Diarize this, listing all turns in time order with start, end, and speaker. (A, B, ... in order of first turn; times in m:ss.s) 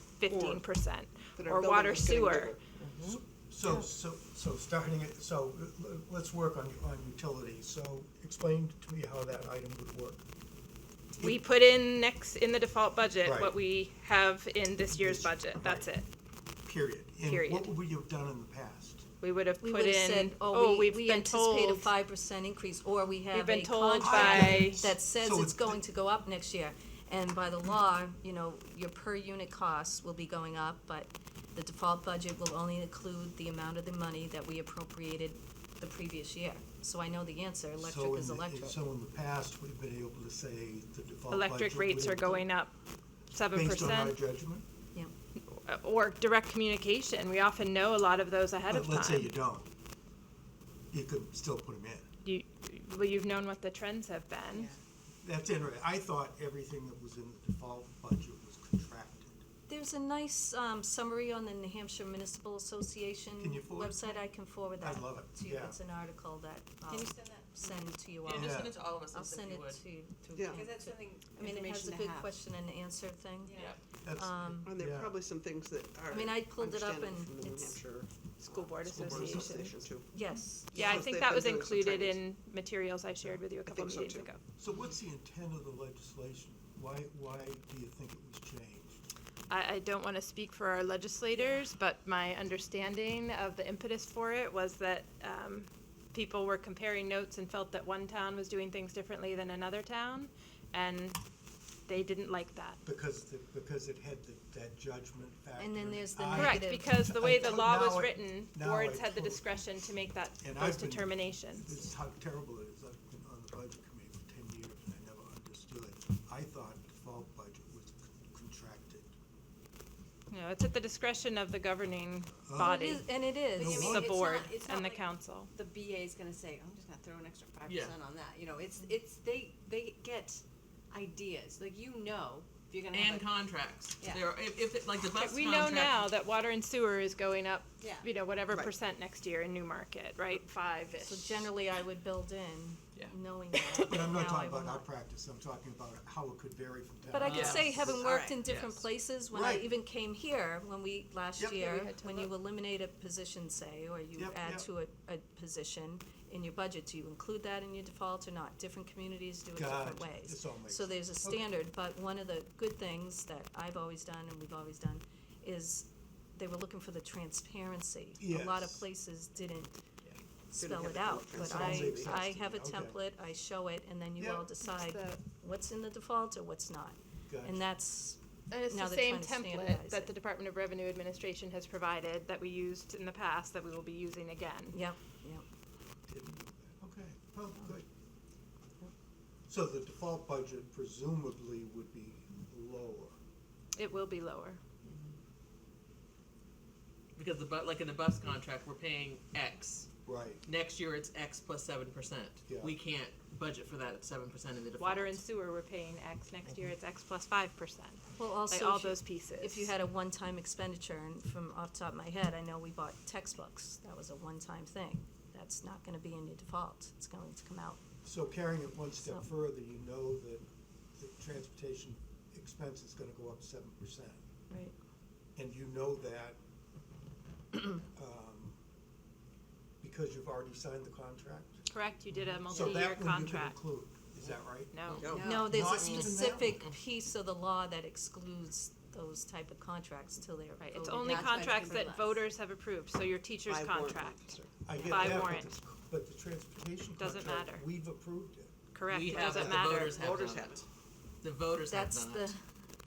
0:00.2-0:02.6 A
0:00.3-0:00.7 B
0:01.4-0:02.6 B
0:02.8-0:03.2 C
0:03.1-0:03.8 B
0:03.4-0:10.2 D
0:11.2-0:16.1 A
0:13.2-0:13.6 D
0:14.9-0:15.9 D
0:16.6-0:19.0 D
0:17.2-0:17.7 A
0:19.2-0:21.9 A
0:19.6-0:38.8 E
0:23.3-0:24.8 A
0:24.0-0:25.8 D
0:37.8-0:42.5 D
0:41.3-0:42.7 A
0:43.3-0:44.2 A
0:43.5-0:44.7 D
0:45.4-0:49.3 A
0:48.7-0:49.7 D
0:50.9-0:52.1 D
0:52.2-0:54.7 A
0:55.2-0:59.4 D
0:59.7-1:13.6 E
1:03.4-1:04.0 D
1:04.7-1:05.8 D
1:06.9-1:07.9 F
1:08.2-1:09.8 C
1:08.3-1:08.8 D
1:10.4-1:10.7 B
1:10.5-1:12.4 F
1:13.4-1:13.8 F
1:14.0-1:15.2 D
1:14.2-1:14.7 E
1:14.6-1:20.1 B
1:16.1-1:17.8 E
1:18.4-1:24.4 A
1:19.0-1:19.5 D
1:20.1-1:21.0 E
1:20.7-1:22.2 B
1:23.6-1:24.3 B
1:24.6-1:29.0 D
1:29.5-1:41.2 A
1:41.9-1:42.8 A
1:42.8-1:49.8 D
1:45.6-1:46.9 E
1:46.3-1:51.8 A
1:50.4-1:59.1 D
2:00.3-2:05.5 A
2:02.4-2:04.2 D
2:02.5-2:03.8 E
2:03.6-2:14.3 F
2:07.7-2:08.0 C
2:12.9-2:16.1 C
2:15.1-2:21.5 A
2:17.8-2:18.1 F
2:21.0-2:24.9 E
2:23.0-2:23.8 C
2:23.9-2:28.0 D
2:27.1-2:49.8 E
2:27.2-2:28.9 C
2:28.0-2:28.4 F
2:29.3-2:29.7 D
2:31.6-2:32.2 A
2:34.2-2:34.7 D
2:39.6-2:41.5 D
2:48.2-2:48.9 D
2:50.5-3:00.1 E
2:50.5-2:52.3 B
2:51.4-2:53.0 D
2:54.2-2:54.5 D
2:54.6-2:55.2 A
2:57.3-2:57.7 D
2:58.5-3:04.8 A
3:04.7-3:05.4 E
3:06.1-3:07.9 D
3:09.5-3:13.2 D
3:13.7-3:14.6 A
3:17.2-3:19.9 C
3:20.0-3:20.4 D
3:20.4-3:25.2 C
3:22.5-3:22.7 D
3:24.8-3:29.7 A
3:28.2-3:37.8 E
3:38.0-3:40.5 D
3:39.0-3:39.3 E
3:41.0-3:44.2 D
3:45.4-3:46.4 D
3:47.9-3:48.6 D
3:49.8-3:51.6 D
3:51.7-3:53.6 A
3:52.5-3:56.6 D
3:54.7-3:55.2 A
3:54.9-3:55.2 C
3:55.0-3:55.7 F
3:55.2-4:01.8 E
3:55.7-3:56.7 C
4:00.6-4:05.6 A
4:00.9-4:02.3 F
4:03.5-4:04.6 B
4:04.6-4:08.5 D
4:07.0-4:07.6 A
4:08.7-4:10.0 A
4:08.9-4:10.6 C
4:09.3-4:10.6 B
4:11.2-4:12.3 C
4:11.7-4:12.4 E